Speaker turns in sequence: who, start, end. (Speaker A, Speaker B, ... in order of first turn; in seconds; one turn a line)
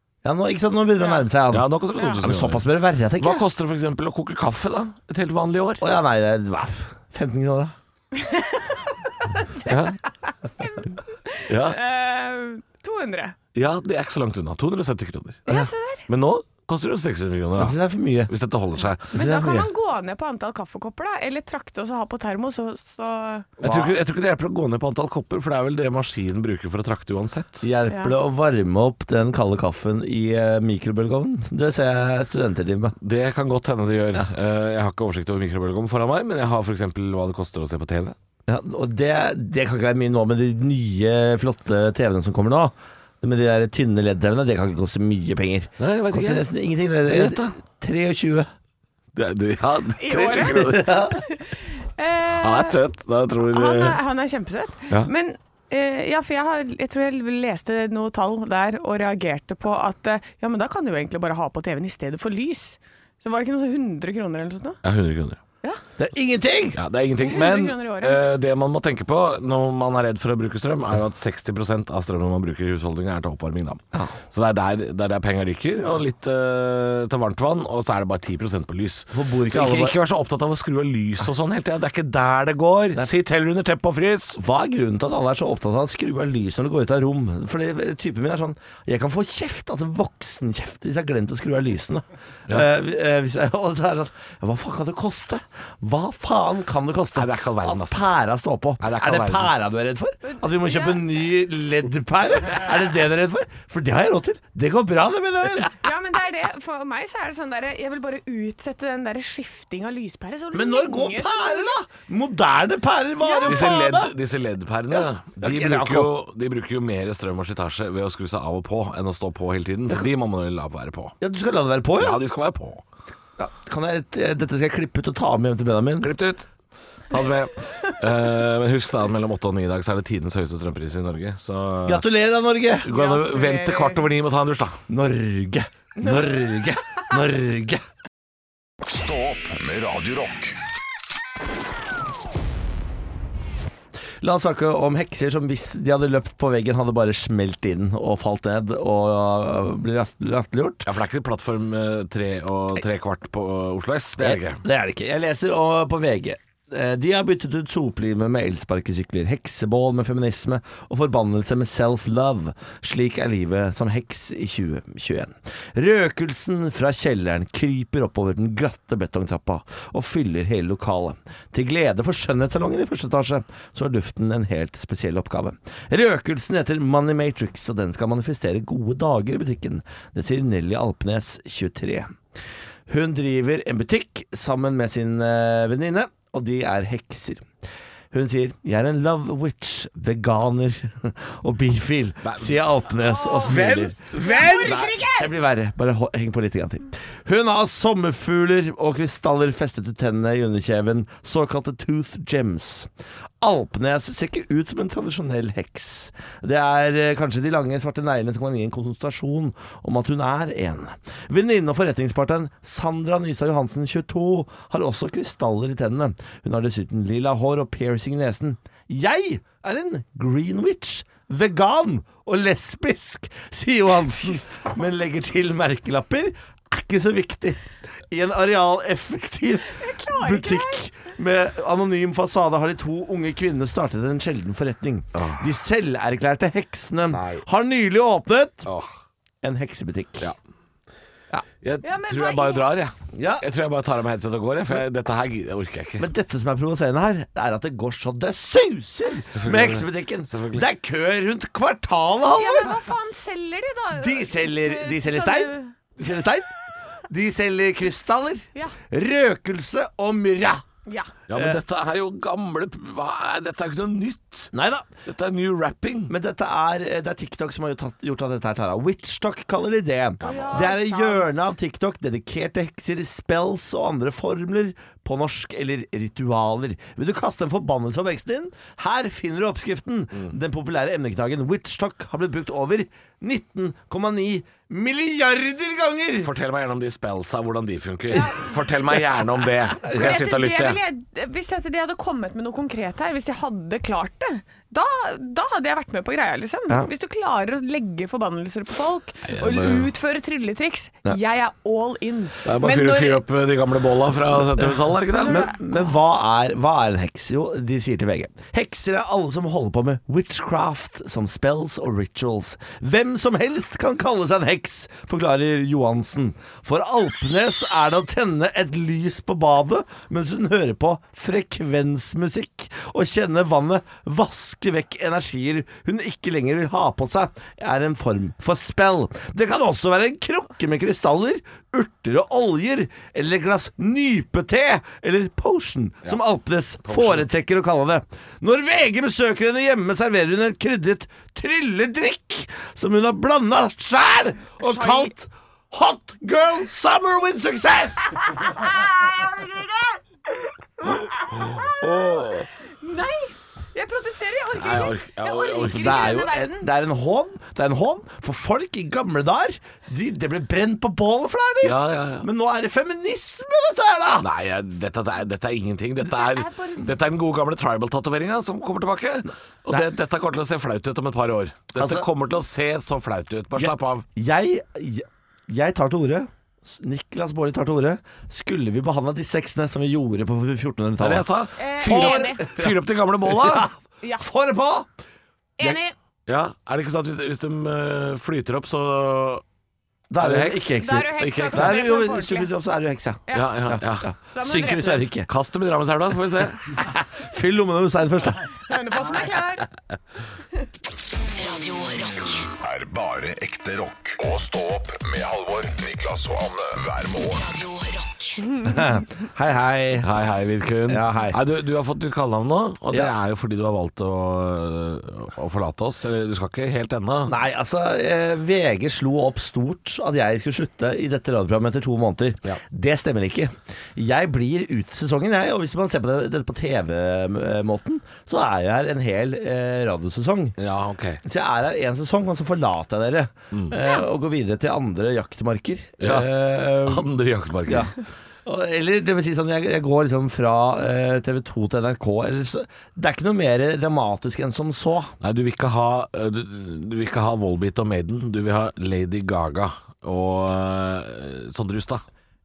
Speaker A: 0.2-1.7
Speaker B: 1.5-2.7
Speaker A: 2.2-3.4
Speaker B: 3.2-5.8
Speaker A: 5.8-7.8
Speaker C: 8.2-9.7
Speaker B: 9.7-10.0
Speaker C: 10.3-13.4
Speaker B: 11.5-11.8
Speaker B: 13.6-15.5
Speaker C: 15.5-16.1
Speaker B: 16.1-19.1
Speaker A: 17.6-18.3
Speaker A: 19.1-19.7
Speaker C: 19.1-23.5
Speaker A: 23.6-24.0
Speaker B: 23.6-27.7
Speaker A: 27.6-33.0
Speaker C: 27.9-28.1
Speaker B: 33.0-38.1
Speaker A: 38.5-48.5
Speaker B: 45.8-46.5
Speaker B: 47.0-47.5
Speaker B: 49.1-51.1
Speaker C: 50.0-52.8
Speaker A: 50.4-51.2
Speaker B: 52.4-54.0
Speaker C: 53.5-64.8
Speaker B: 64.8-65.4
Speaker A: 66.0-66.8
Speaker B: 66.8-84.4
Speaker C: 67.2-68.2
Speaker A: 79.1-80.0
Speaker A: 84.4-105.8
Speaker B: 97.2-98.1
Speaker B: 98.8-99.5
Speaker C: 100.2-101.0
Speaker C: 105.8-111.7
Speaker A: 110.5-114.1
Speaker C: 113.2-113.7
Speaker B: 113.4-121.2
Speaker A: 114.9-116.2
Speaker A: 121.2-122.2
Speaker B: 122.0-122.8
Speaker A: 123.4-126.1
Speaker B: 126.0-126.5
Speaker B: 127.1-132.1
Speaker A: 131.9-132.9
Speaker B: 132.8-134.8
Speaker C: 132.9-134.0
Speaker A: 134.9-137.8
Speaker D: 138.8-140.6
Speaker A: 144.2-150.9
Speaker B: 150.8-154.6
Speaker A: 154.2-182.2
Speaker A: 182.9-187.5
Speaker A: 188.1-194.0
Speaker B: 192.2-192.6
Speaker B: 193.3-194.8
Speaker C: 194.2-195.3
Speaker A: 194.6-238.7
Speaker C: 229.7-230.8
Speaker B: 235.2-235.5
Speaker B: 237.1-237.4
Speaker B: 238.7-238.9
Speaker A: 239.4-240.3
Speaker B: 241.6-246.1
Speaker C: 241.8-242.7
Speaker A: 243.1-243.5
Speaker A: 246.0-252.7
Speaker B: 249.3-250.7
Speaker C: 252.4-255.7
Speaker A: 254.0-256.5
Speaker A: 257.1-260.6
Speaker C: 260.9-261.1
Speaker B: 261.3-264.5
Speaker A: 261.3-261.6
Speaker A: 264.5-264.9
Speaker B: 265.1-266.1
Speaker A: 266.1-286.3
Speaker B: 270.2-270.7
Speaker C: 270.2-271.5
Speaker B: 286.2-290.8
Speaker C: 288.1-288.4
Speaker A: 289.9-290.2
Speaker C: 289.9-303.2
Speaker B: 299.3-299.9
Speaker B: 302.4-305.5
Speaker C: 305.2-305.5
Speaker A: 305.2-348.7
Speaker B: 336.9-337.2
Speaker C: 344.6-345.1
Speaker C: 348.6-350.0
Speaker C: 350.8-356.7
Speaker B: 351.6-352.5
Speaker B: 354.6-356.2
Speaker A: 355.6-364.3
Speaker B: 361.6-362.3
Speaker B: 364.2-374.1
Speaker C: 366.1-366.9
Speaker A: 371.8-372.1
Speaker A: 373.6-381.3
Speaker B: 381.0-383.7
Speaker C: 381.6-382.4
Speaker A: 381.8-384.9
Speaker C: 385.6-385.9
Speaker B: 386.3-389.4
Speaker A: 390.1-395.3
Speaker B: 390.2-391.9
Speaker C: 390.8-392.5
Speaker B: 393.3-394.1
Speaker C: 394.3-395.1
Speaker B: 395.3-396.7
Speaker A: 396.7-398.5
Speaker C: 398.7-399.6
Speaker E: 401.2-402.5
Speaker D: 402.6-407.5
Speaker E: 407.4-408.6
Speaker A: 408.6-410.1
Speaker B: 410.0-417.3
Speaker A: 410.9-411.4
Speaker A: 417.3-430.6
Speaker B: 430.6-431.2
Speaker A: 431.2-437.1
Speaker B: 433.5-433.8
Speaker B: 436.0-437.9
Speaker A: 437.7-437.9
Speaker A: 438.4-445.1
Speaker B: 445.2-452.0